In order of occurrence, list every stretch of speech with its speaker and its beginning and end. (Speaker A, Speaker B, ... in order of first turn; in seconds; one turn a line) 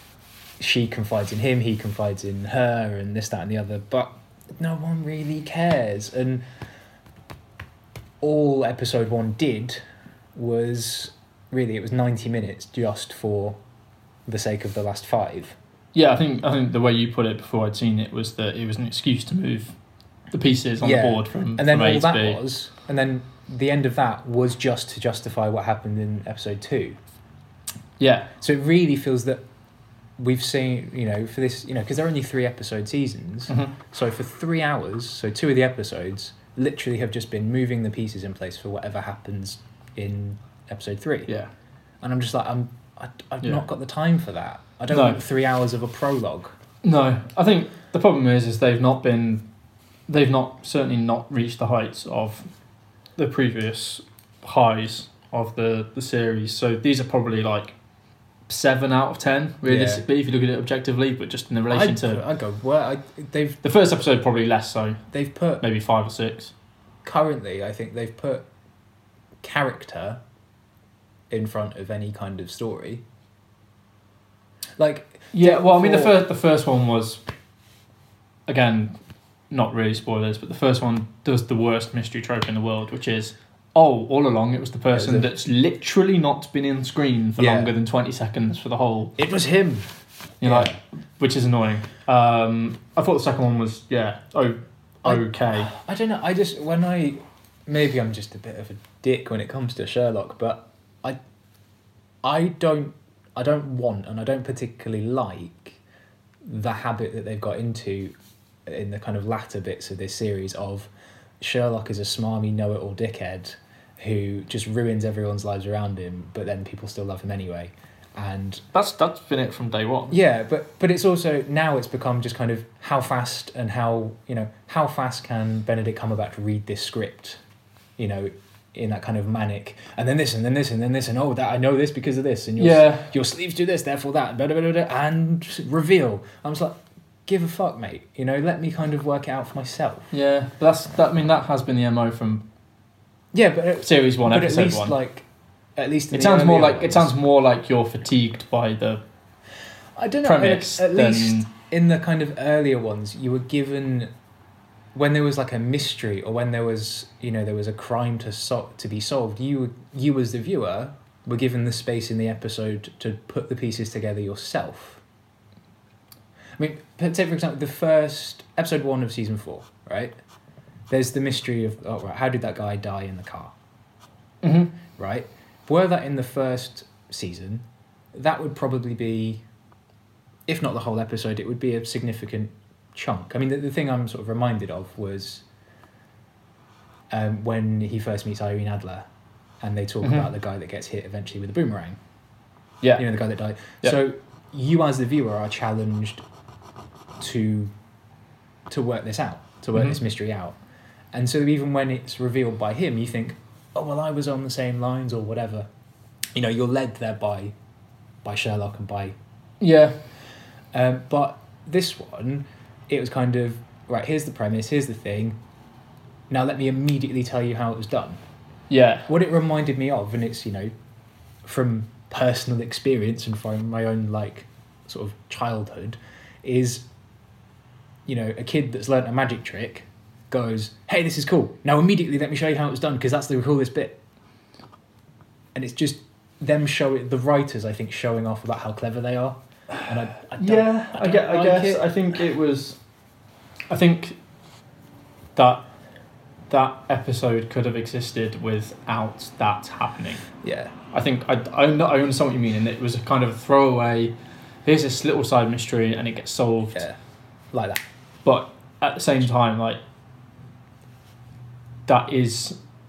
Speaker A: 0.6-6.4
Speaker A: 8.2-9.8
Speaker A: 10.3-13.6
Speaker A: 14.3-15.6
Speaker B: 15.9-19.7
Speaker B: 20.3-22.4
Speaker A: 20.8-27.0
Speaker B: 28.0-28.3
Speaker A: 28.4-29.4
Speaker A: 30.2-41.3
Speaker B: 33.5-33.7
Speaker A: 42.0-46.5
Speaker B: 44.9-45.2
Speaker B: 46.8-49.5
Speaker B: 50.1-52.5
Speaker B: 53.2-57.7
Speaker B: 58.5-62.2
Speaker A: 59.6-60.0
Speaker A: 61.7-63.6
Speaker B: 63.6-65.0
Speaker A: 65.1-65.6
Speaker B: 65.6-66.5
Speaker A: 67.0-68.5
Speaker A: 69.4-70.2
Speaker A: 71.3-73.0
Speaker A: 74.8-76.2
Speaker B: 75.3-77.2
Speaker B: 78.5-79.0
Speaker B: 79.5-89.1
Speaker A: 84.9-85.3
Speaker A: 87.4-87.7
Speaker A: 89.2-89.9
Speaker B: 90.4-95.7
Speaker A: 90.4-90.8
Speaker A: 95.0-101.2
Speaker A: 102.2-105.8
Speaker A: 106.4-108.1
Speaker A: 108.7-110.9
Speaker A: 111.4-118.6
Speaker B: 118.7-120.1
Speaker A: 120.1-127.4
Speaker A: 128.0-140.1
Speaker B: 132.6-133.1
Speaker B: 140.1-142.5
Speaker A: 143.3-145.2
Speaker B: 143.8-144.9
Speaker A: 145.8-147.1
Speaker B: 146.1-149.0
Speaker A: 150.0-154.1
Speaker B: 150.2-151.5
Speaker A: 154.9-165.0
Speaker A: 166.6-170.1
Speaker A: 170.9-173.5
Speaker B: 174.4-174.7
Speaker A: 174.9-179.4
Speaker A: 180.5-185.4
Speaker A: 187.1-189.1
Speaker A: 189.6-192.0
Speaker A: 192.9-196.2
Speaker A: 197.2-197.7
Speaker A: 198.7-200.6
Speaker A: 201.1-205.7
Speaker A: 206.3-207.5
Speaker A: 208.2-209.1
Speaker B: 209.6-210.0
Speaker A: 210.7-215.4
Speaker A: 216.3-218.2
Speaker B: 218.7-219.1
Speaker A: 219.1-220.7
Speaker A: 221.4-226.8
Speaker A: 228.1-234.0
Speaker A: 235.5-241.9
Speaker B: 240.4-242.8
Speaker B: 243.7-244.2
Speaker B: 245.3-245.7
Speaker B: 246.5-250.2
Speaker A: 250.4-250.7
Speaker B: 250.9-256.8
Speaker A: 257.5-257.8
Speaker B: 258.2-259.8
Speaker B: 261.9-262.6